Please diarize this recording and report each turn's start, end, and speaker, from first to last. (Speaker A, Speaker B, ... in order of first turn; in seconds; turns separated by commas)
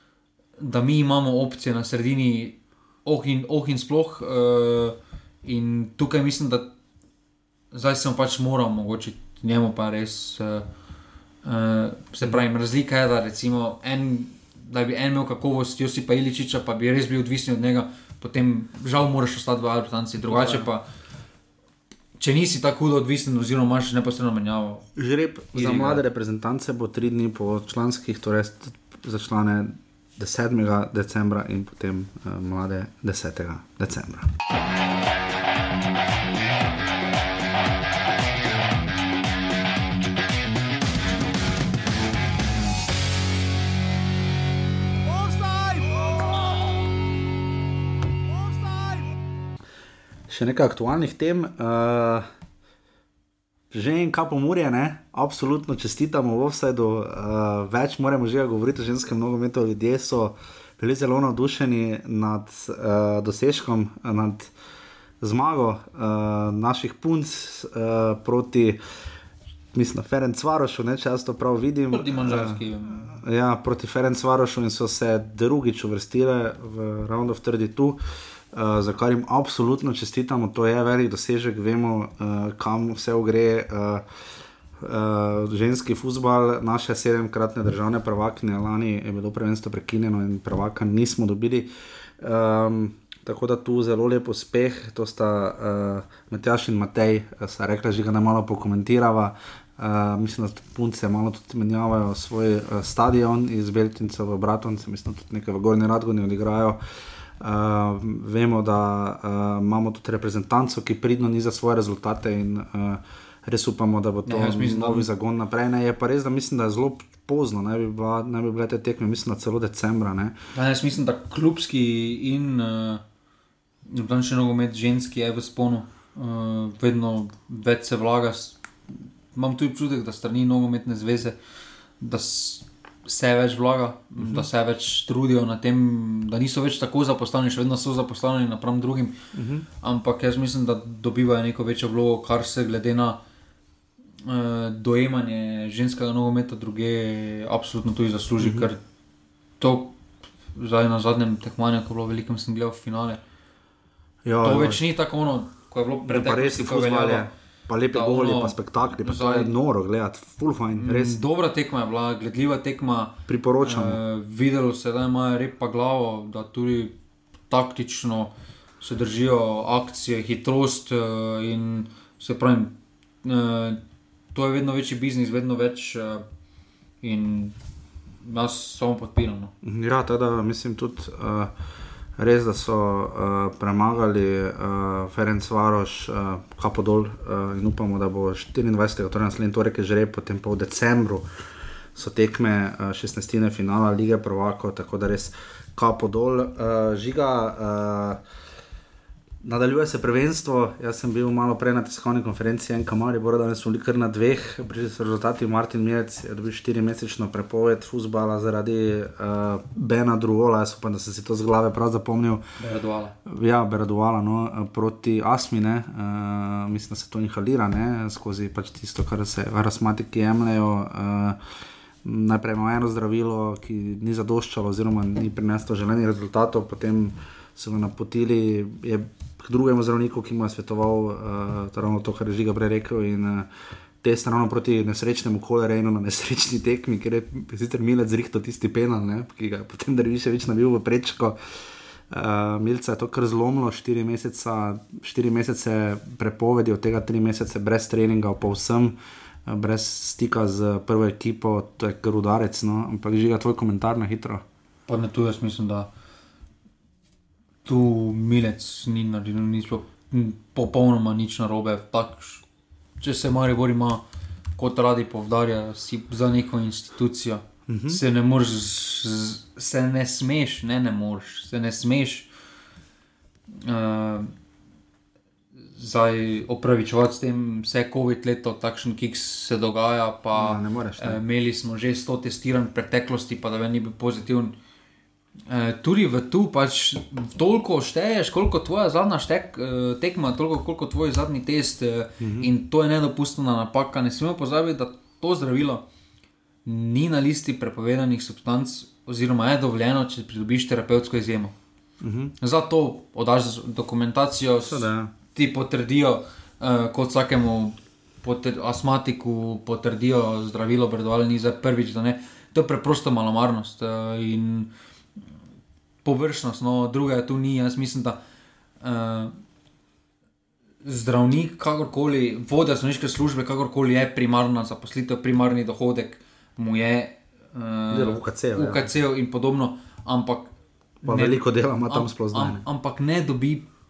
Speaker A: 0.6-6.7, Speaker A: 7.7-10.7, Speaker A: 11.4-20.9, Speaker B: 20.3-20.7, Speaker A: 22.2-24.9, Speaker B: 25.0-34.3, Speaker A: 25.5-26.0, Speaker B: 50.3-52.3, Speaker B: 53.7-64.5, Speaker B: 65.2-68.8, Speaker B: 69.7-78.0, Speaker A: 71.9-73.1, Speaker B: 78.5-84.0, Speaker B: 84.8-106.8, Speaker B: 107.4-120.4, Speaker A: 114.2-115.1, Speaker A: 120.5-123.0, Speaker A: 123.9-128.6, Speaker A: 129.3-131.4, Speaker A: 132.0-139.2, Speaker B: 134.2-134.5, Speaker B: 139.3-139.7, Speaker A: 139.8-143.2, Speaker A: 144.3-148.8, Speaker B: 148.4-148.7, Speaker A: 149.6-149.9, Speaker A: 150.6-153.2, Speaker B: 154.2-154.8, Speaker A: 154.4-157.3, Speaker B: 156.0-161.2, Speaker A: 157.9-159.5, Speaker A: 160.8-166.9, Speaker B: 163.3-164.0, Speaker A: 167.5-173.8, Speaker A: 174.3-176.2, Speaker A: 177.0-177.6, Speaker A: 178.2-179.5, Speaker B: 179.6-181.5, Speaker B: 182.2-191.3, Speaker B: 191.9-198.2, Speaker B: 199.4-212.4, Speaker A: 212.6-213.1, Speaker B: 213.2-221.4, Speaker B: 222.0-233.5, Speaker B: 234.0-241.4, Speaker B: 242.1-254.4, Speaker A: 254.9-255.9, Speaker A: 257.6-262.4, Speaker A: 263.0-264.0, Speaker A: 264.6-272.3, Speaker B: 267.7-268.0, Speaker A: 273.6-274.3, Speaker A: 275.8-284.6, Speaker B: 280.4-281.2, Speaker A: 285.5-295.9, Speaker B: 292.2-292.5, Speaker A: 296.6-301.6, Speaker B: 302.0-302.4, Speaker A: 302.4-314.7, Speaker B: 304.7-305.1, Speaker A: 316.0-318.2, Speaker A: 318.8-319.3, Speaker A: 320.8-330.5, Speaker B: 327.9-328.9, Speaker A: 331.0-333.7, Speaker B: 331.1-332.6